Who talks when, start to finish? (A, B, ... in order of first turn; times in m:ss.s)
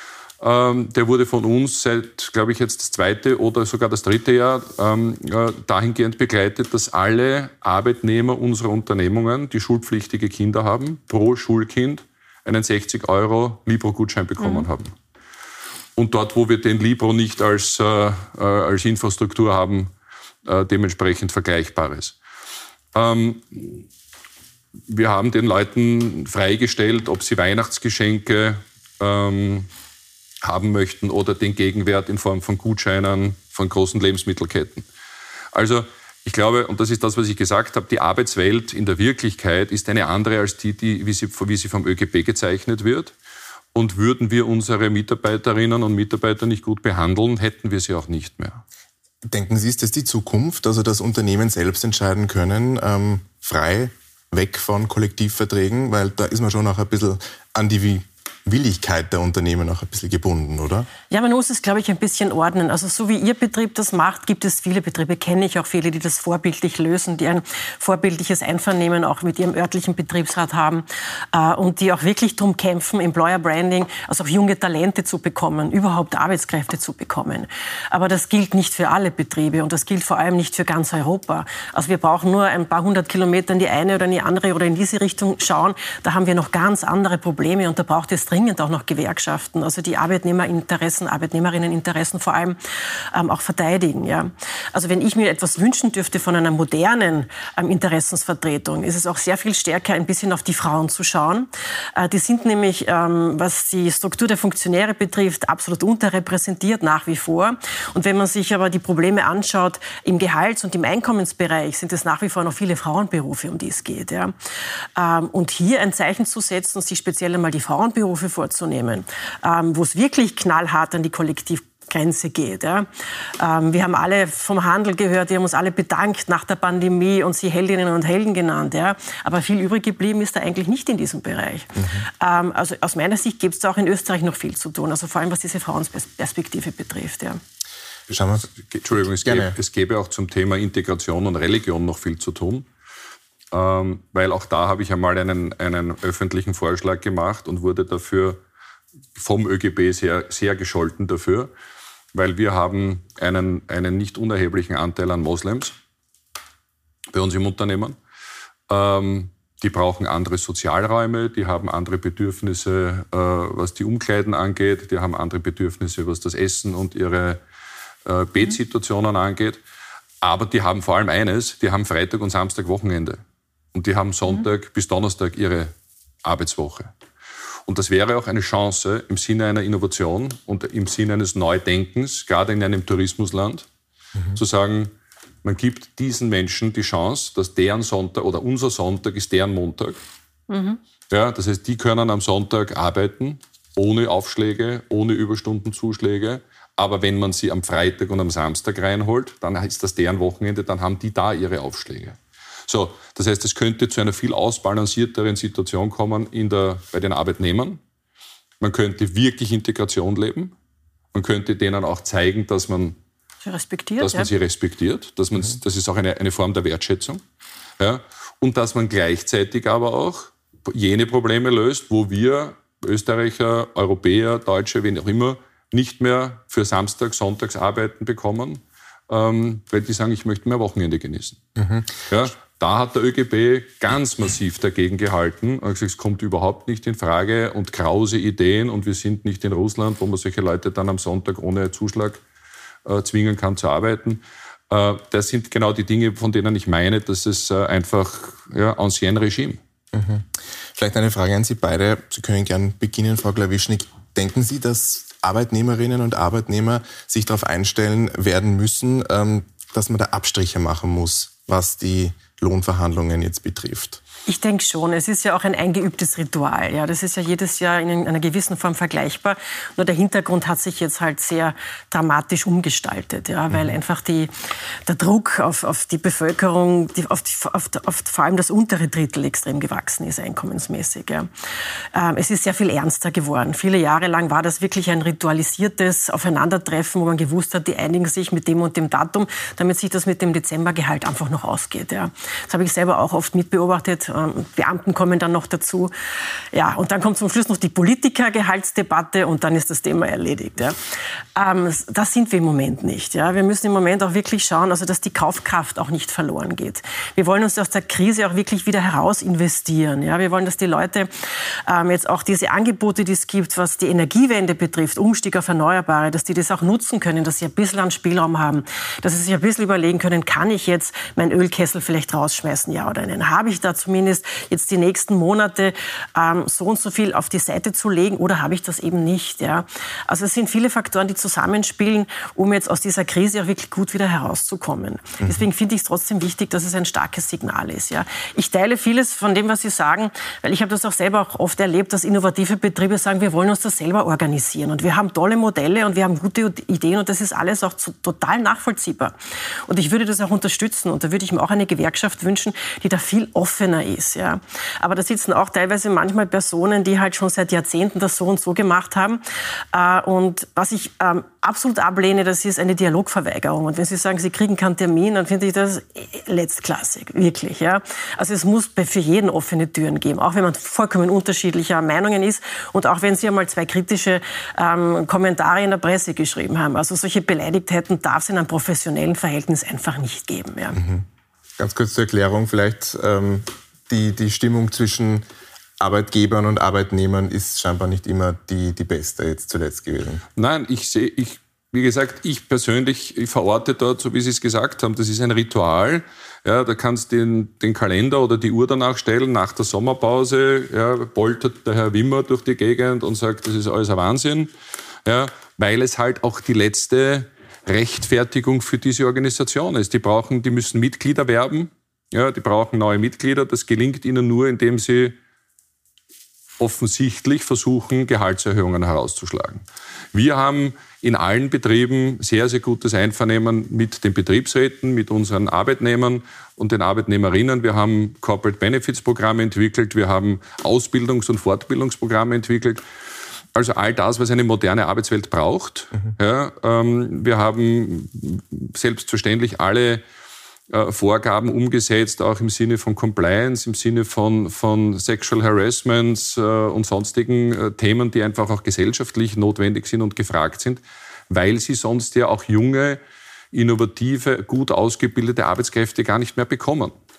0:00.4-0:14.9 A
0:14.4-0:14.7 B
0:16.0-0:19.9 A
0:20.4-0:22.2 A
0:22.9-0:23.8 A
0:24.9-0:29.7 A
0:30.4-0:34.8 A
0:35.5-0:43.1 A
0:43.8-0:48.6 A
0:49.2-1:00.9 C
1:01.1-1:32.6 B
1:33.1-1:54.3 B
1:55.0-2:02.9 B
2:03.4-2:17.4 B
2:11.8-2:12.1 C
2:18.1-2:18.5 C
2:18.5-2:22.7 A
2:19.2-2:19.6 C
2:23.5-2:28.4 A
2:29.2-2:31.5 A
2:32.1-2:35.7 A
2:37.1-2:38.0 A
2:38.7-2:47.4 A
2:48.0-2:49.6 A
2:50.2-2:53.2 A
2:53.7-2:55.7 A
2:56.2-2:56.9 A
2:57.7-3:03.7 A
3:04.4-3:04.9 A
3:05.4-3:10.0 A
3:10.5-3:10.8 B
3:11.1-3:27.8 A
3:28.6-3:30.5 A
3:31.1-3:33.0 A
3:33.4-3:34.3 B
3:34.0-3:37.2 A
3:37.8-3:51.4 A
3:51.6-3:52.1 C
3:52.1-4:02.2 A
4:02.8-4:09.6 A
4:09.9-4:24.0 C
4:24.3-4:34.3 B
4:34.9-4:41.3 B
4:41.9-4:55.9 B
4:56.5-5:00.8 B
5:01.4-5:11.1 B
5:11.7-5:49.1 B
5:49.7-6:20.8 B
6:20.8-6:21.0 C
6:21.6-6:25.2 C
6:25.8-6:30.2 C
6:30.4-6:44.5 A
6:45.0-6:55.2 A
6:56.6-7:12.8 A
7:13.5-7:20.0 A
7:20.7-7:33.0 A
7:33.5-7:36.9 A